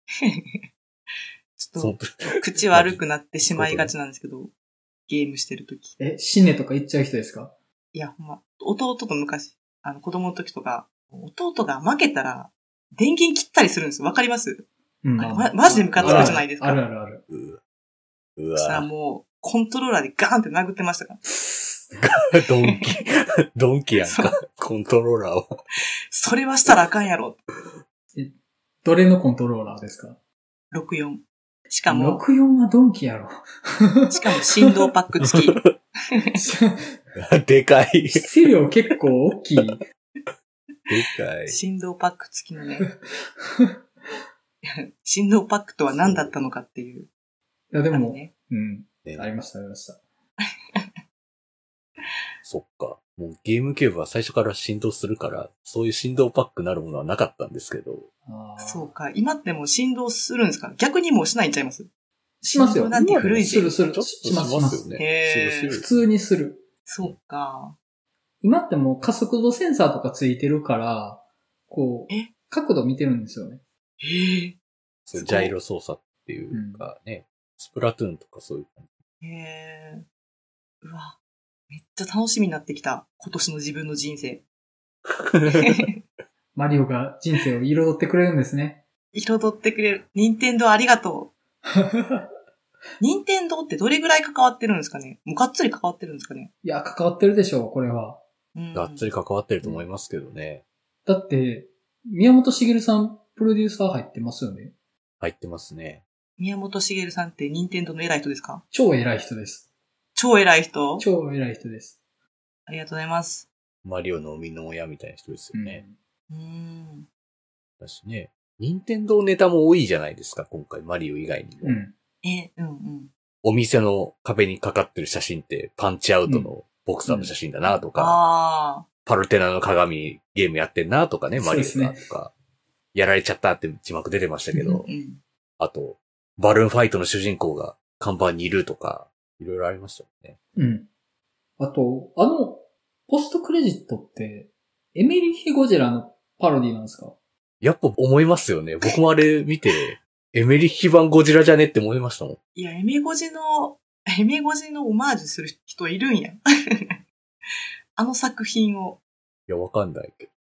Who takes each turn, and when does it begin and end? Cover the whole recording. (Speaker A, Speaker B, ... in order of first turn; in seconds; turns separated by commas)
Speaker A: 0.1-0.6, Speaker A: 1.6-4.5, Speaker B: 1.8-3.9, Speaker A: 5.1-6.0, Speaker C: 6.0-7.5, Speaker A: 7.9-14.7, Speaker C: 15.0-17.2, Speaker A: 15.2-16.8, Speaker B: 15.9-16.4, Speaker B: 17.3-17.6, Speaker B: 18.4-18.9, Speaker A: 18.6-21.2, Speaker C: 21.2-22.0, Speaker B: 22.0-25.6, Speaker A: 24.0-24.4, Speaker A: 26.1-27.4, Speaker C: 28.1-30.2, Speaker A: 30.7-32.2, Speaker C: 31.9-34.7, Speaker A: 34.1-36.3, Speaker B: 35.2-35.7, Speaker C: 36.3-37.0, Speaker B: 37.1-38.3, Speaker C: 38.1-39.8, Speaker B: 40.9-41.6, Speaker A: 41.5-42.9, Speaker C: 42.9-43.8, Speaker A: 44.6-47.1, Speaker B: 45.9-46.3, Speaker C: 47.7-50.0, Speaker A: 47.9-48.3, Speaker B: 52.4-58.1, Speaker C: 58.2-58.9, Speaker A: 58.6-61.9, Speaker C: 62.4-65.0, Speaker A: 62.5-63.8, Speaker B: 62.9-65.9, Speaker A: 65.0-65.8, Speaker C: 65.7-66.6, Speaker A: 66.8-67.8, Speaker C: 68.4-73.6, Speaker A: 74.0-74.6, Speaker B: 75.1-78.9, Speaker A: 75.1-75.5, Speaker C: 76.5-76.9, Speaker A: 79.2-80.0, Speaker A: 80.8-81.2, Speaker A: 81.7-84.4, Speaker B: 85.1-85.8, Speaker A: 85.5-85.9, Speaker C: 86.5-88.8, Speaker A: 89.1-91.3, Speaker C: 91.7-92.2, Speaker A: 93.0-96.5, Speaker C: 96.6-98.2, Speaker A: 98.5-99.1, Speaker B: 98.7-100.6, Speaker C: 101.0-104.7, Speaker B: 105.2-106.0, Speaker A: 106.4-108.6, Speaker C: 108.7-109.7, Speaker A: 110.2-111.0, Speaker C: 111.0-112.0, Speaker A: 112.7-113.5, Speaker B: 113.8-115.8, Speaker C: 115.5-116.0, Speaker A: 116.3-117.1, Speaker B: 117.8-121.8, Speaker C: 121.6-121.9, Speaker A: 122.2-123.1, Speaker B: 123.4-128.2, Speaker C: 126.2-126.5, Speaker C: 127.0-127.3, Speaker A: 127.9-128.9, Speaker B: 129.0-132.3, Speaker C: 131.3-132.1, Speaker B: 132.9-134.9, Speaker A: 134.5-135.2, Speaker B: 135.6-140.4, Speaker C: 140.6-140.9, Speaker C: 141.6-147.1, Speaker B: 147.6-152.4, Speaker A: 152.6-157.0, Speaker A: 158.0-159.0, Speaker B: 159.5-160.3